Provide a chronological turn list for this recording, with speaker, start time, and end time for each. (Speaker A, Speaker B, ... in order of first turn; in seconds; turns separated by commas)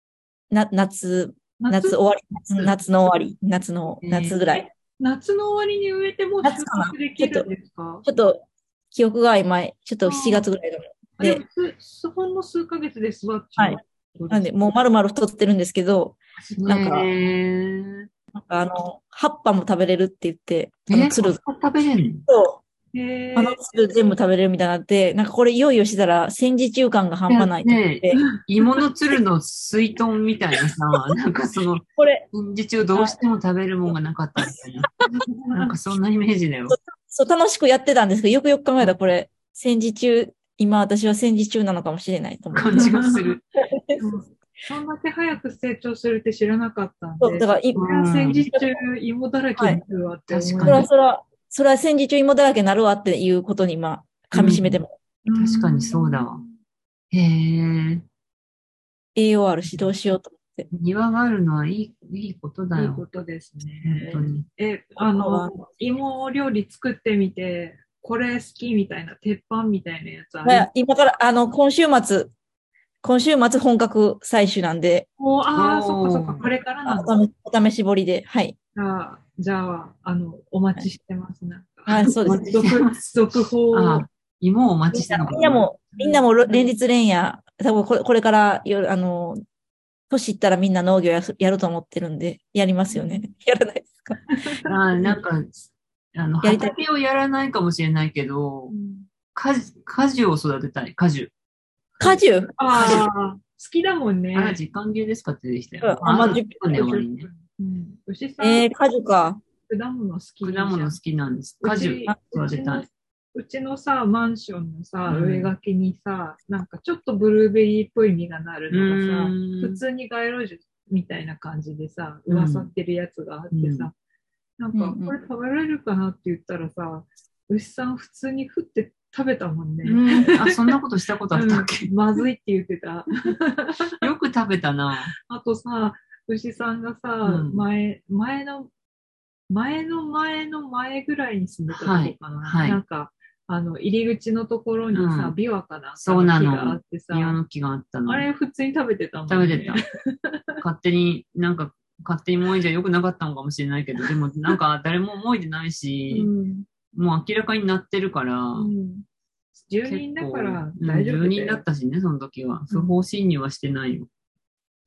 Speaker A: 0.5-4.7, Speaker B: 1.6-2.0, Speaker B: 4.0-4.4, Speaker B: 5.0-8.1, Speaker A: 6.4-7.5, Speaker A: 8.1-11.4, Speaker B: 10.1-10.5, Speaker B: 11.2-14.6, Speaker A: 14.3-17.1, Speaker B: 16.4-16.7, Speaker C: 16.6-18.1, Speaker A: 18.3-21.4, Speaker C: 20.9-22.3, Speaker A: 22.3-22.6, Speaker B: 22.9-23.6, Speaker A: 23.4-28.2, Speaker C: 27.3-34.9, Speaker A: 32.0-32.3, Speaker B: 35.4-35.7, Speaker C: 35.5-36.8, Speaker A: 36.7-42.9, Speaker C: 42.5-43.4, Speaker B: 42.7-43.2, Speaker A: 43.7-44.0, Speaker B: 44.0-50.9, Speaker A: 47.2-47.8, Speaker C: 47.8-48.5, Speaker C: 50.3-50.9, Speaker A: 50.6-54.9, Speaker C: 54.3-56.4, Speaker B: 55.3-56.5, Speaker C: 57.1-58.0, Speaker A: 59.2-60.7, Speaker C: 60.7-63.0, Speaker B: 62.8-70.7, Speaker C: 63.8-64.5, Speaker A: 65.0-65.5, Speaker A: 70.4-72.3, Speaker A: 73.0-75.1, Speaker B: 75.2-77.1, Speaker C: 75.5-76.5, Speaker A: 76.9-78.6, Speaker B: 78.8-84.1, Speaker A: 81.9-82.5, Speaker C: 82.2-83.1, Speaker C: 83.7-85.7, Speaker A: 84.9-89.4, Speaker B: 86.0-86.7, Speaker A: 90.1-94.2, Speaker B: 92.9-93.3, Speaker B: 94.3-95.2, Speaker C: 94.7-98.7, Speaker A: 96.4-96.7, Speaker B: 98.7-99.1, Speaker C: 99.3-101.3, Speaker A: 102.0-103.0, Speaker B: 102.0-104.6, Speaker C: 102.8-103.0, Speaker C: 104.3-107.3, Speaker A: 105.8-106.6, Speaker B: 106.1-108.7, Speaker A: 108.4-109.4, Speaker B: 109.7-111.0, Speaker C: 110.4-112.9, Speaker B: 111.6-123.9, Speaker C: 115.1-115.5, Speaker C: 118.7-119.8, Speaker C: 122.3-122.7, Speaker C: 123.5-123.9, Speaker B: 124.6-130.8, Speaker A: 124.8-125.2, Speaker C: 129.8-131.9, Speaker B: 131.3-134.0, Speaker C: 134.0-135.1, Speaker B: 135.3-138.7, Speaker C: 137.2-137.6, Speaker B: 139.5-147.4, Speaker C: 141.7-142.8, Speaker C: 144.9-145.3, Speaker C: 146.0-148.3, Speaker B: 148.1-150.6, Speaker C: 149.3-149.8, Speaker C: 150.6-156.3, Speaker B: 156.1-156.7, Speaker C: 156.9-158.7, Speaker B: 158.6-159.1, Speaker B: 159.6-161.6, Speaker C: 159.8-164.1